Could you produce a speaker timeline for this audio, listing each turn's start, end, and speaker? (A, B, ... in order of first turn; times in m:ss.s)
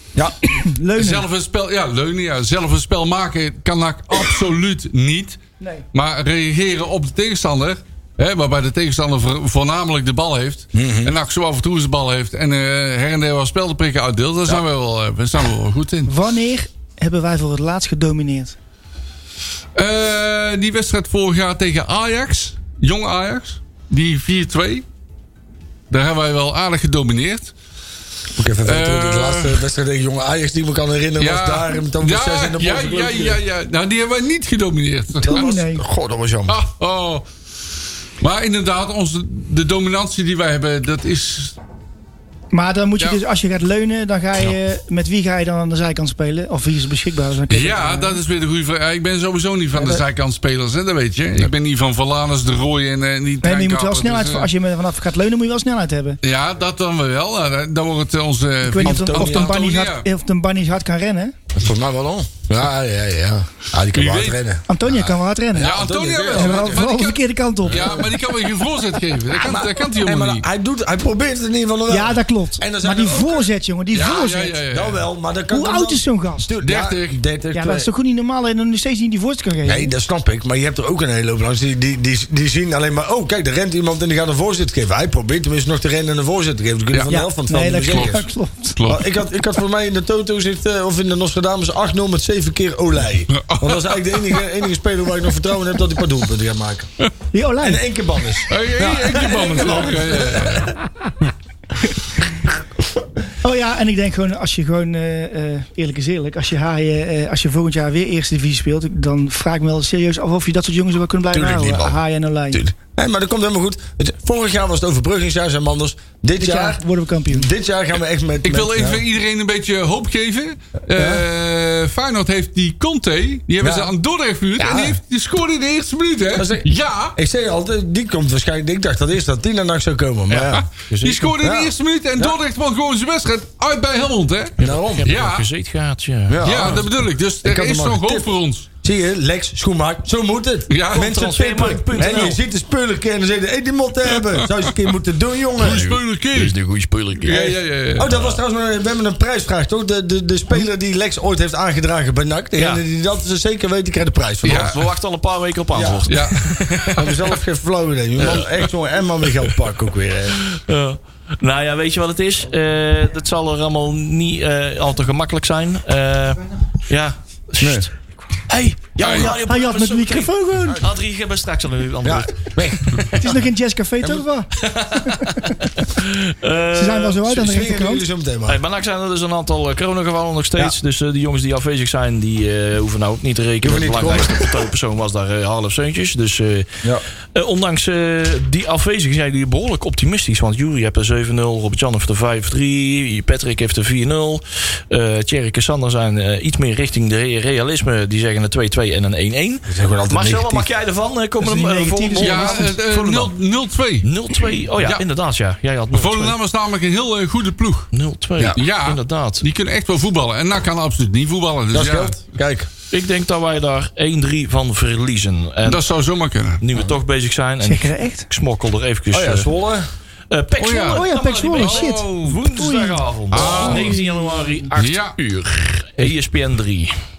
0:00.4-0:01.2 A
0:01.0-0:05.4 B
0:05.6-0:05.8 A
0:05.9-0:16.1 B
0:10.7-0:11.1 C
0:16.0-0:18.5 A
0:19.7-0:24.8 B
0:25.9-0:27.5 B
0:28.3-0:33.4 C
0:28.6-0:29.6 B
0:31.2-0:35.4 B
0:35.2-0:36.6 C
0:35.2-0:35.8 A
0:36.5-0:37.3 B
0:38.2-0:41.6 B
0:42.5-0:48.2 A
0:47.5-0:54.5 B
0:49.7-0:50.0 A
0:53.4-0:56.2 A
0:56.2-1:00.0 B
0:58.6-1:01.3 A
0:58.8-0:59.6 C
1:01.5-1:04.6 C
1:03.9-1:04.4 B
1:04.7-1:05.7 A
1:05.5-1:06.8 C
1:05.6-1:10.4 B
1:06.3-1:08.2 A
1:07.7-1:08.1 C
1:09.3-1:13.5 C
1:11.9-1:14.6 A
1:13.9-1:15.0 B
1:14.7-1:17.9 C
1:15.5-1:16.5 A
1:16.6-1:17.2 B
1:17.5-1:19.9 A
1:19.6-1:28.2 C
1:27.1-1:28.8 A
1:27.8-1:28.2 B
1:28.8-1:29.0 B
1:28.8-1:36.9 C
1:33.3-1:34.4 B
1:37.3-1:37.8 A
1:37.6-1:40.7 C
1:38.5-1:40.7 B
1:43.4-1:52.6 A
1:51.3-1:52.0 C
1:52.5-1:59.0 C
1:56.4-1:57.5 A
1:58.4-2:07.2 B
2:00.9-2:01.2 C
2:03.6-2:03.9 C
2:04.6-2:05.0 C
2:06.3-2:10.7 C
2:10.3-2:15.4 B
2:10.9-2:11.4 D
2:11.4-2:12.4 C
2:14.6-2:15.2 C
2:14.6-2:16.8 D
2:16.3-2:16.8 C
2:16.4-2:18.7 B
2:17.4-2:18.3 C
2:18.8-2:26.0 C
2:20.7-2:21.1 B
2:20.9-2:22.4 D
2:22.0-2:22.4 B
2:24.1-2:24.6 B
2:25.6-2:26.5 B
2:25.6-2:27.6 D
2:27.2-2:28.2 B
2:28.0-2:34.8 C
2:32.6-2:32.8 D
2:34.4-2:34.8 B
2:34.4-2:37.1 D
2:35.7-2:36.1 C
2:36.1-2:37.2 B
2:36.9-2:40.4 C
2:38.2-2:38.6 D
2:40.4-2:53.2 D
2:47.6-2:47.9 C
2:49.0-2:49.4 B
2:49.2-2:50.8 A
2:52.0-2:53.3 C
2:53.1-2:55.6 A
2:54.6-2:57.3 D
2:56.7-2:58.0 A
2:57.2-2:58.6 C
2:58.5-3:06.7 D
3:03.6-3:04.7 C
3:07.3-3:23.3 D
3:19.7-3:20.7 C
3:21.4-3:22.7 A
3:22.2-3:24.1 B
3:24.0-3:26.4 D
3:24.8-3:25.0 B
3:25.9-3:27.9 B
3:27.9-3:29.4 D
3:28.5-3:32.2 B
3:31.7-3:32.7 C
3:32.9-3:35.8 D
3:35.6-3:36.6 B
3:36.6-3:39.5 D
3:37.6-3:38.3 A
3:39.1-3:39.9 C
3:40.3-3:46.9 D
3:40.6-3:42.0 B
3:40.8-3:44.6 A
3:43.3-3:44.0 B
3:44.8-3:45.2 B